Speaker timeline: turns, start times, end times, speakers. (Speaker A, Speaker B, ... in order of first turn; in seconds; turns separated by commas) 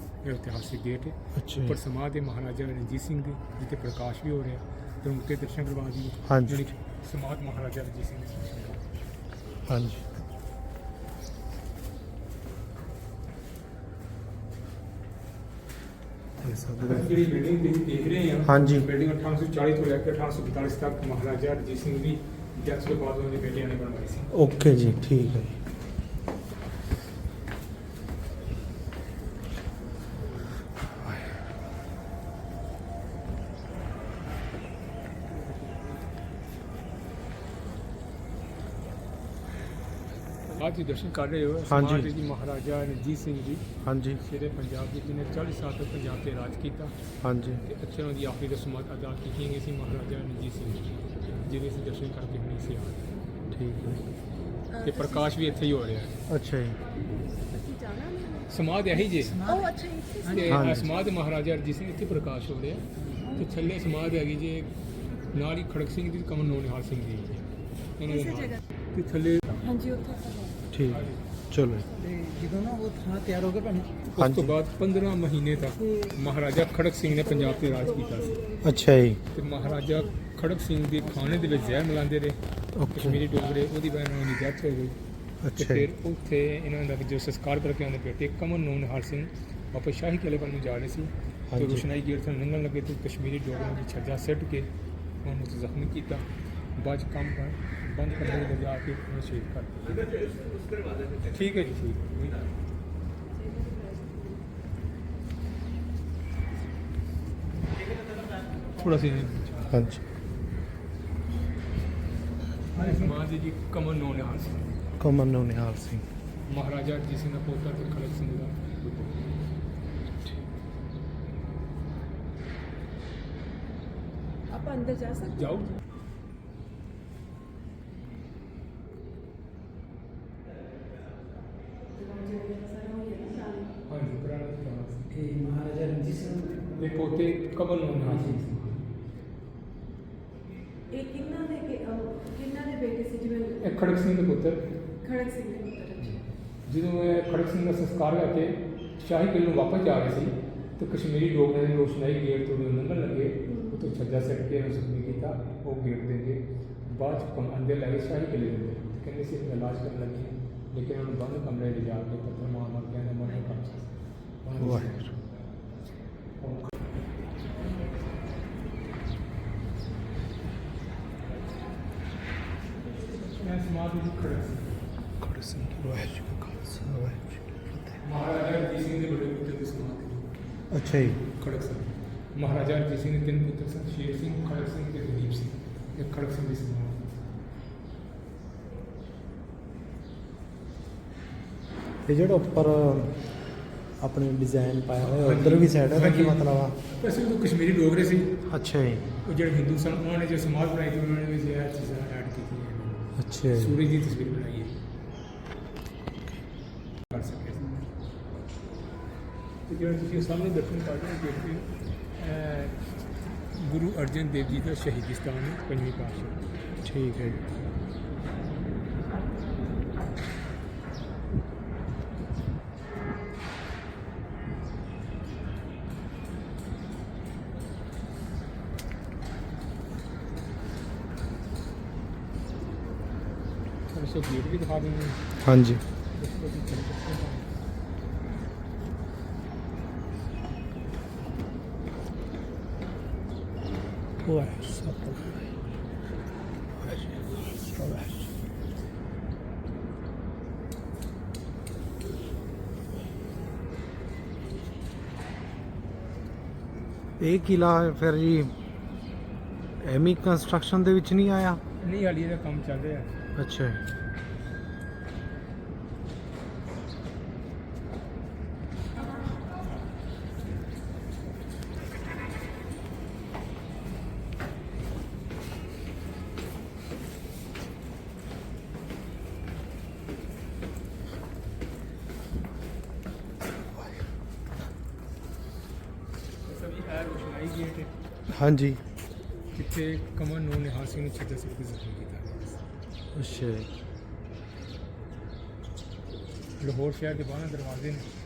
Speaker A: 0.2-8.9, Speaker B: 1.4-1.8, Speaker B: 6.3-6.6, Speaker B: 9.7-10.0, Speaker B: 16.4-17.1, Speaker A: 16.8-24.5, Speaker B: 18.4-18.9, Speaker B: 24.3-25.6, Speaker A: 40.5-47.0, Speaker B: 41.7-42.1, Speaker B: 43.8-44.2, Speaker B: 47.2-47.6, Speaker A: 47.6-53.1, Speaker B: 53.5-54.0, Speaker C: 54.7-55.2, Speaker A: 54.8-56.2, Speaker B: 56.3-56.8, Speaker C: 57.1-58.5, Speaker A: 58.5-59.5, Speaker D: 59.1-60.4, Speaker C: 59.4-60.5, Speaker A: 60.2-64.7, Speaker B: 60.5-60.9, Speaker A: 65.3-69.7, Speaker C: 69.6-70.5, Speaker B: 70.7-71.9, Speaker A: 70.8-71.3, Speaker D: 72.0-73.9, Speaker A: 73.9-78.5, Speaker B: 74.2-74.6, Speaker C: 78.3-78.6, Speaker B: 78.6-79.2, Speaker A: 79.3-82.4, Speaker B: 82.8-83.2, Speaker A: 82.9-85.0, Speaker B: 85.4-85.8, Speaker A: 85.5-100.5, Speaker B: 91.5-91.9, Speaker A: 101.1-102.5, Speaker C: 103.3-104.4, Speaker A: 108.7-109.8, Speaker B: 109.7-110.0, Speaker A: 112.7-114.9, Speaker B: 115.0-116.0, Speaker A: 116.5-119.2, Speaker C: 124.5-125.4, Speaker A: 125.2-125.8, Speaker C: 131.9-133.7, Speaker A: 133.8-135.1, Speaker D: 135.2-136.7, Speaker A: 136.6-138.9, Speaker C: 140.9-143.6, Speaker A: 143.5-144.8, Speaker C: 145.0-146.1, Speaker A: 146.0-165.3, Speaker B: 164.6-165.1, Speaker A: 166.4-166.9, Speaker A: 173.2-174.9, Speaker B: 175.2-177.9, Speaker A: 178.0-180.3, Speaker B: 180.7-181.2, Speaker A: 181.2-187.1, Speaker B: 192.1-193.2, Speaker B: 194.0-196.8, Speaker A: 195.0-198.4, Speaker B: 198.5-199.1, Speaker A: 199.1-204.8, Speaker B: 203.2-203.8, Speaker A: 207.1-207.9, Speaker A: 209.7-212.9, Speaker A: 213.6-216.4, Speaker B: 216.8-217.4, Speaker A: 233.9-235.4, Speaker B: 235.4-235.8, Speaker A: 236.2-237.4, Speaker B: 244.2-245.4, Speaker B: 246.9-248.2, Speaker B: 257.2-258.5, Speaker B: 259.8-261.6, Speaker A: 261.8-263.2, Speaker B: 263.4-263.8, Speaker A: 286.4-287.9, Speaker B: 288.3-288.8, Speaker A: 289.5-292.6, Speaker B: 293.1-293.7, Speaker A: 296.6-298.1